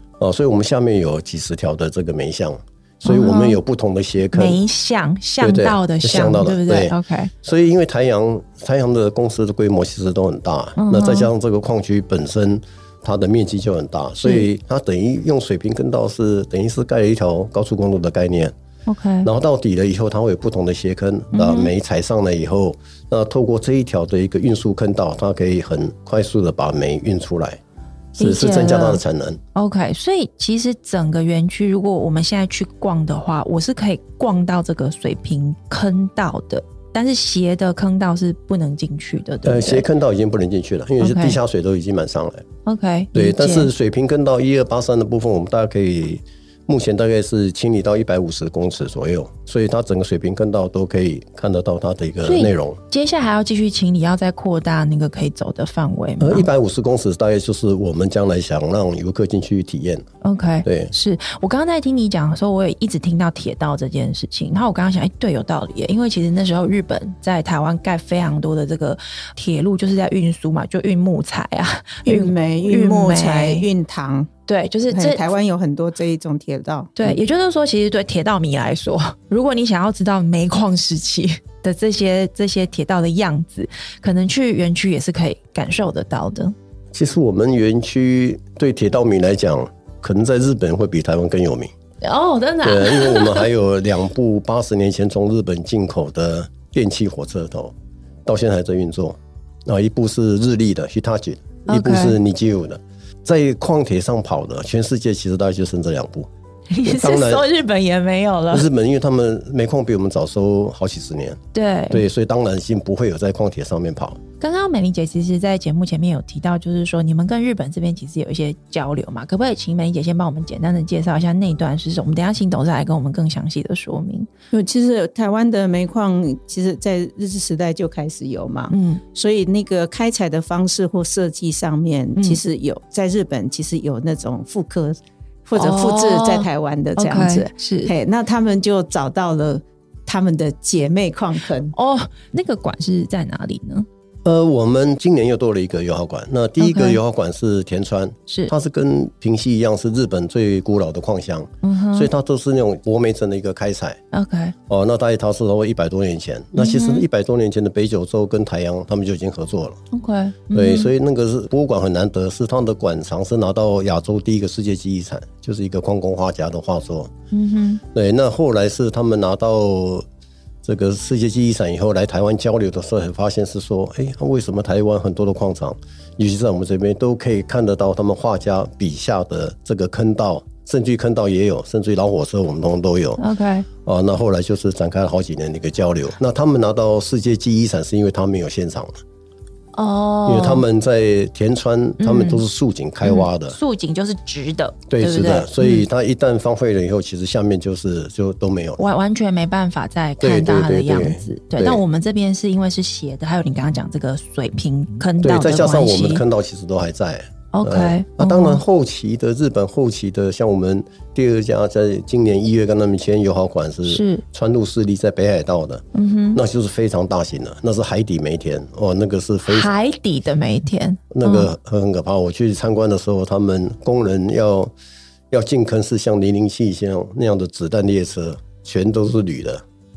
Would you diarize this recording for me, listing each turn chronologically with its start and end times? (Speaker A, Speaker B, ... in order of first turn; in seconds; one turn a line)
Speaker A: 0.2-4.6
Speaker B: 3.0-3.6
Speaker B: 4.3-7.3
Speaker A: 5.4-18.5
Speaker B: 10.8-11.3
Speaker B: 14.2-14.5
Speaker B: 18.9-19.3
Speaker A: 19.2-27.6
Speaker B: 21.3-21.7
Speaker A: 28.1-29.4
Speaker B: 28.2-29.0
Speaker B: 29.5-39.9
Speaker A: 39.4-42.4
Speaker B: 41.0-41.4
Speaker B: 42.6-43.7
Speaker A: 43.1-52.8
Speaker B: 52.2-56.5
Speaker A: 56.2-60.0
Speaker B: 60.2-73.7
Speaker A: 60.6-60.9
Speaker C: 72.0-74.3
Speaker B: 74.5-75.3
Speaker C: 74.9-77.2
Speaker B: 77.0-86.5
Speaker A: 86.9-91.7
Speaker B: 92.0-93.5
Speaker A: 92.6-97.7
Speaker A: 98.2-106.3
Speaker B: 101.7-102.2
Speaker B: 106.7-108.7
Speaker A: 106.8-107.4
Speaker A: 108.5-114.2
Speaker B: 111.5-112.0
Speaker B: 114.4-124.3
Speaker C: 124.5-141.7
Speaker B: 128.7-129.0
Speaker B: 132.2-132.4
Speaker B: 135.6-137.9
Speaker B: 141.7-143.9
Speaker A: 144.2-154.0
Speaker B: 146.6-147.0
Speaker B: 151.6-152.1
Speaker B: 154.1-154.5
Speaker A: 154.7-159.8
Speaker B: 156.6-157.0
Speaker B: 159.9-160.9
Speaker A: 160.5-167.1
Speaker B: 167.3-167.8
Speaker A: 167.9-170.0
Speaker A: 170.6-183.2
Speaker B: 183.2-183.7
Speaker A: 183.8-189.0
Speaker B: 189.7-190.6
Speaker A: 190.2-193.6
Speaker B: 192.0-192.4
Speaker B: 193.0-195.9
Speaker A: 194.9-198.8
Speaker B: 198.8-206.2
Speaker A: 200.2-201.8
Speaker A: 205.2-219.7
Speaker B: 207.5-208.6
Speaker B: 213.8-214.2
Speaker B: 215.9-216.4
Speaker B: 219.5-221.5
Speaker A: 221.1-224.7
Speaker A: 225.3-229.6